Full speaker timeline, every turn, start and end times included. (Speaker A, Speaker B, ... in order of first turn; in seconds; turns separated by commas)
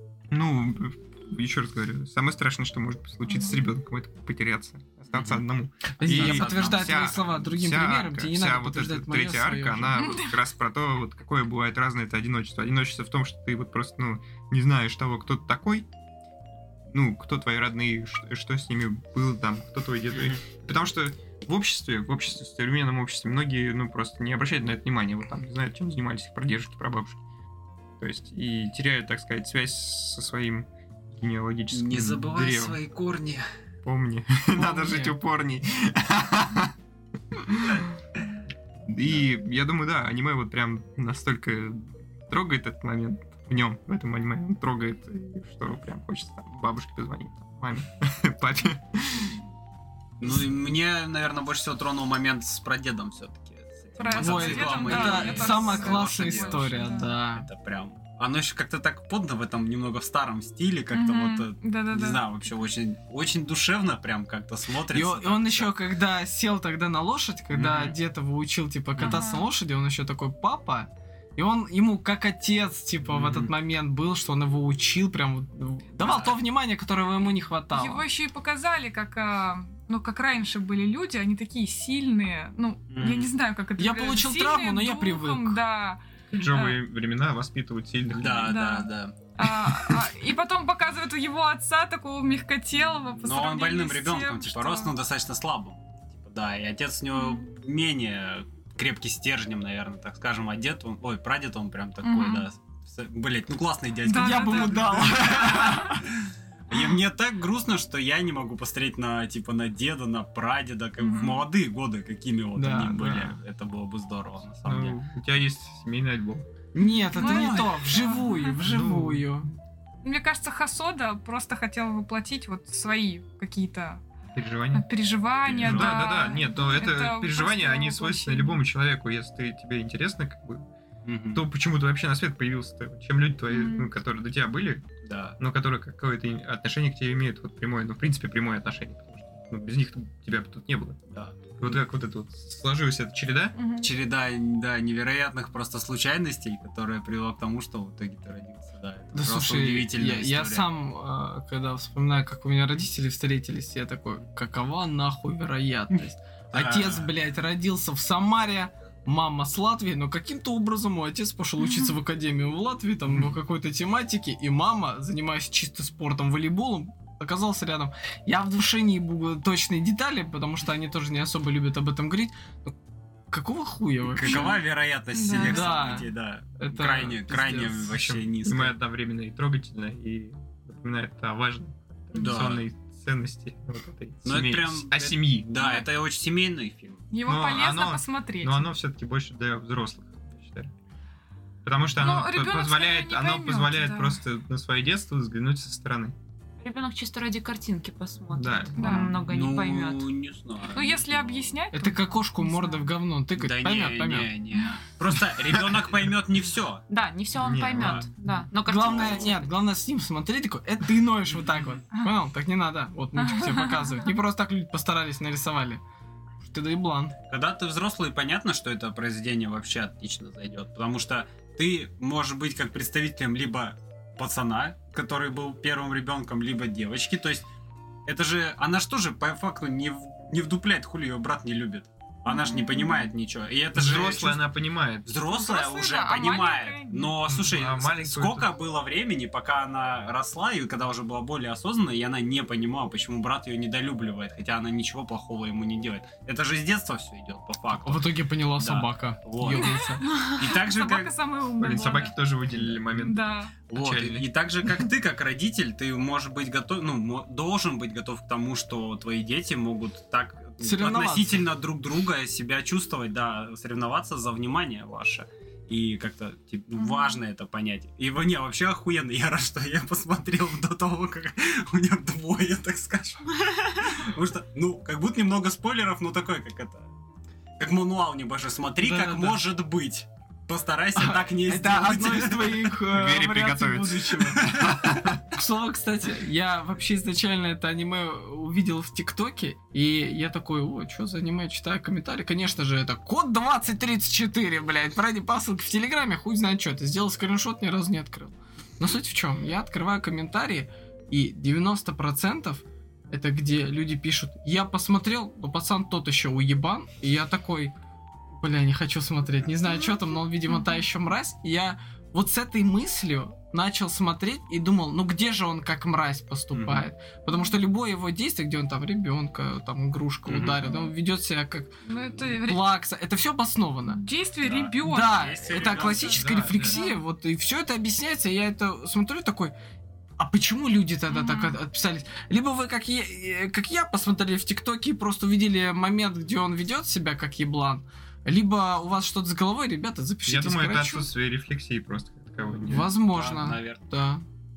Speaker A: 0.3-15.9, Speaker B: 3.3-3.6, Speaker C: 5.1-5.4, Speaker D: 5.9-10.0, Speaker C: 6.0-7.2, Speaker B: 10.0-10.4, Speaker A: 16.9-27.2, Speaker C: 20.1-20.4, Speaker A: 28.0-32.8, Speaker C: 31.7-33.4, Speaker A: 33.8-36.7, Speaker D: 34.5-35.1, Speaker A: 37.3-37.8, Speaker A: 38.9-49.3, Speaker C: 50.2-65.7, Speaker B: 54.0-57.1, Speaker D: 54.1-57.5, Speaker B: 60.9-62.5, Speaker D: 64.9-78.0, Speaker C: 67.5-68.0, Speaker C: 69.0-69.2, Speaker B: 69.0-69.5, Speaker C: 73.1-73.5, Speaker C: 76.0-76.4, Speaker B: 77.7-86.8, Speaker C: 82.9-83.3, Speaker D: 83.8-85.6, Speaker A: 86.3-88.6, Speaker C: 88.1-89.3, Speaker B: 88.5-94.9, Speaker C: 93.2-115.0, Speaker B: 97.1-97.5, Speaker B: 102.0-102.5, Speaker B: 104.0-105.1, Speaker D: 104.1-106.0, Speaker B: 111.0-111.4, Speaker D: 112.5-113.4, Speaker A: 114.6-116.4, Speaker D: 116.7-119.5, Speaker B: 117.1-118.5, Speaker C: 117.2-117.8, Speaker A: 118.5-119.3, Speaker B: 120.0-124.0, Speaker A: 124.3-124.8, Speaker B: 124.7-128.6, Speaker C: 125.4-126.1, Speaker A: 125.6-130.7, Speaker C: 131.0-131.4, Speaker A: 131.3-134.8, Speaker B: 133.5-133.9, Speaker C: 135.0-135.4, Speaker A: 135.4-141.0, Speaker C: 141.1-141.8, Speaker A: 141.6-143.6, Speaker B: 143.6-143.9, Speaker C: 143.8-150.7, Speaker D: 149.1-172.7, Speaker C: 156.5-157.1, Speaker B: 161.6-161.9, Speaker D: 173.3-174.5, Speaker C: 174.1-178.7, Speaker B: 174.2-174.6, Speaker B: 175.1-176.0, Speaker D: 175.3-176.1, Speaker D: 176.6-177.9, Speaker A: 177.9-185.5, Speaker C: 182.1-182.6, Speaker C: 184.2-187.1, Speaker B: 185.6-185.8, Speaker B: 187.1-188.7, Speaker A: 187.2-190.7, Speaker A: 191.6-196.1, Speaker B: 192.0-194.2, Speaker E: 196.6-200.1, Speaker A: 198.3-199.0, Speaker B: 198.8-199.1, Speaker C: 198.8-201.6, Speaker B: 200.7-202.9, Speaker D: 201.7-204.3, Speaker C: 203.3-206.8, Speaker E: 206.9-209.5, Speaker A: 207.3-208.1, Speaker C: 207.7-208.1, Speaker D: 208.6-215.8, Speaker C: 208.8-209.3, Speaker C: 211.3-211.8, Speaker B: 213.1-214.1, Speaker D: 216.4-217.2, Speaker C: 217.3-227.4, Speaker C: 228.1-234.5, Speaker B: 232.3-233.1, Speaker A: 233.7-235.1, Speaker C: 235.0-251.1, Speaker B: 235.3-237.1, Speaker A: 237.2-238.5, Speaker D: 247.7-250.0, Speaker B: 249.5-252.1, Speaker A: 251.6-254.9, Speaker B: 252.9-253.6, Speaker C: 253.7-276.9, Speaker D: 260.6-261.5, Speaker C: 277.6-282.8, Speaker D: 278.8-279.4, Speaker D: 281.0-284.6, Speaker A: 282.9-285.2, Speaker C: 284.3-284.8, Speaker D: 285.3-307.7, Speaker D: 308.4-324.0, Speaker B: 309.7-310.8, Speaker C: 316.5-316.9, Speaker C: 320.3-320.7, Speaker B: 320.6-320.9, Speaker B: 321.9-322.8, Speaker B: 323.9-325.4, Speaker C: 324.4-326.3, Speaker D: 324.8-329.5, Speaker A: 325.6-326.8, Speaker B: 326.7-327.0, Speaker D: 330.2-341.1, Speaker B: 331.1-331.6, Speaker A: 340.2-342.9, Speaker D: 342.6-344.2, Speaker C: 342.8-343.8